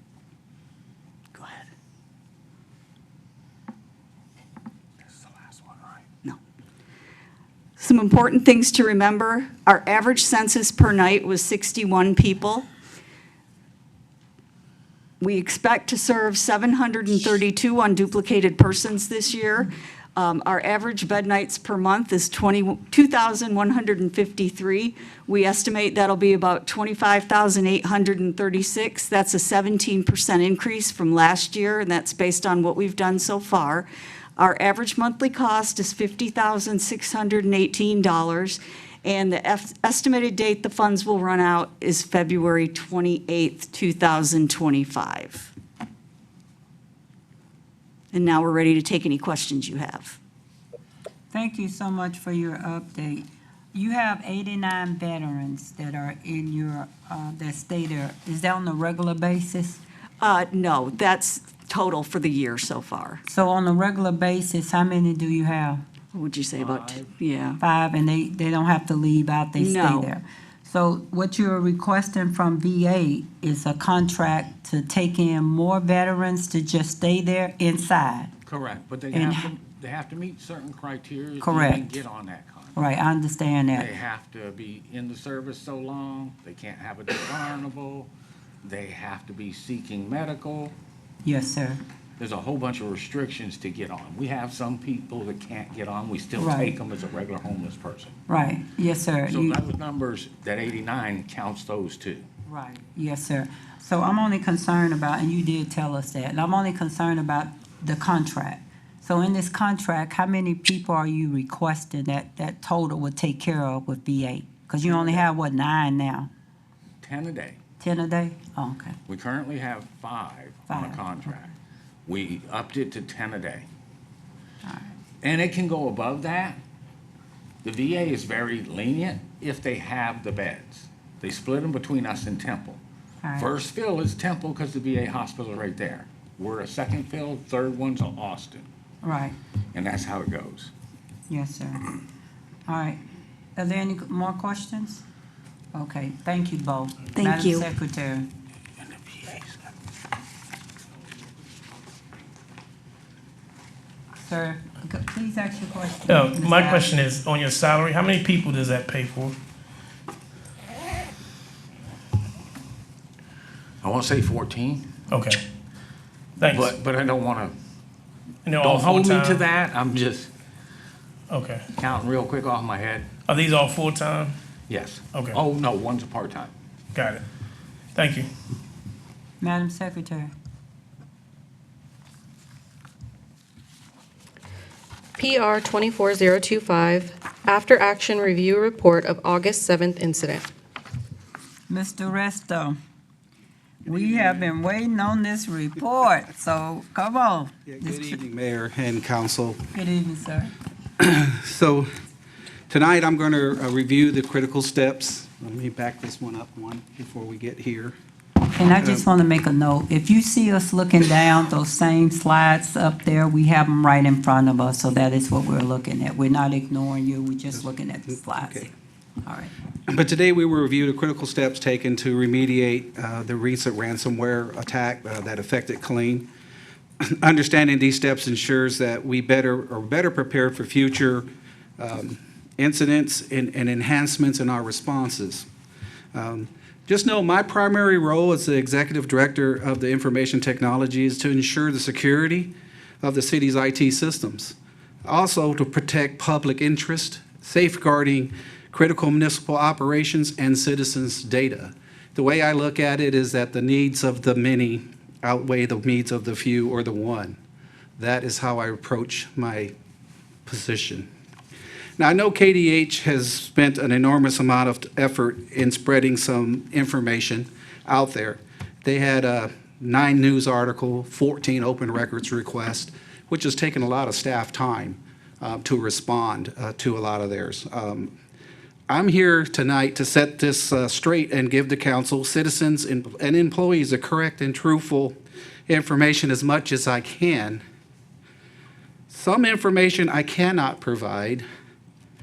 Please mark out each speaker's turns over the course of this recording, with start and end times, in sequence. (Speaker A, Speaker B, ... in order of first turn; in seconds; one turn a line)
Speaker A: 5.1-5.9
Speaker B: 7.8-12.7
Speaker B: 15.2-45.5
Speaker B: 48.1-50.2
Speaker C: 51.3-59.8
Speaker B: 60.2-63.2
Speaker C: 63.2-65.8
Speaker B: 66.1-67.6
Speaker A: 66.6-67.1
Speaker C: 67.6-78.3
Speaker B: 69.6-70.1
Speaker A: 78.5-82.8
Speaker C: 79.1-79.5
Speaker C: 81.4-82.0
Speaker C: 82.8-83.9
Speaker A: 83.8-88.1
Speaker A: 88.6-90.8
Speaker C: 91.2-91.8
Speaker A: 92.2-98.2
Speaker C: 96.4-96.8
Speaker C: 98.3-99.6
Speaker A: 99.3-102.2
Speaker C: 102.5-116.3
Speaker A: 114.8-115.3
Speaker A: 117.0-117.6
Speaker C: 117.8-119.0
Speaker A: 119.1-121.5
Speaker C: 120.7-121.2
Speaker A: 122.1-123.7
Speaker C: 124.6-125.0
Speaker A: 125.2-126.6
Speaker A: 127.6-132.8
Speaker C: 133.2-133.6
Speaker A: 133.4-138.7
Speaker C: 139.0-139.4
Speaker A: 139.7-140.7
Speaker C: 141.3-142.0
Speaker C: 142.7-143.0
Speaker C: 143.6-145.0
Speaker C: 145.7-148.3
Speaker B: 147.2-147.7
Speaker A: 148.9-149.5
Speaker C: 154.2-157.0
Speaker D: 156.1-159.4
Speaker A: 163.8-164.9
Speaker D: 165.1-165.4
Speaker D: 166.4-166.7
Speaker A: 166.5-167.6
Speaker D: 168.5-169.5
Speaker A: 168.6-170.3
Speaker D: 171.3-171.7
Speaker A: 171.8-173.1
Speaker D: 173.3-174.3
Speaker A: 174.7-176.5
Speaker D: 175.1-175.4
Speaker D: 176.9-177.2
Speaker D: 177.9-178.3
Speaker C: 179.4-180.3
Speaker E: 185.2-190.4
Speaker C: 191.7-192.8
Speaker C: 193.8-198.2
Speaker F: 193.9-194.4
Speaker F: 197.7-199.6
Speaker C: 199.7-200.5
Speaker F: 201.0-201.9
Speaker F: 202.7-207.9
Speaker C: 208.6-218.7
Speaker F: 217.5-218.7
Speaker C: 219.2-219.5
Speaker F: 219.9-226.3
Speaker F: 227.0-231.3
Speaker F: 231.8-235.5
Speaker F: 236.1-242.5
Speaker F: 243.0-257.4
Speaker F: 258.0-259.7
Speaker F: 260.5-261.1
Speaker F: 262.0-278.1
Speaker F: 278.9-285.1
Speaker F: 285.7-287.6
Speaker F: 289.1-291.4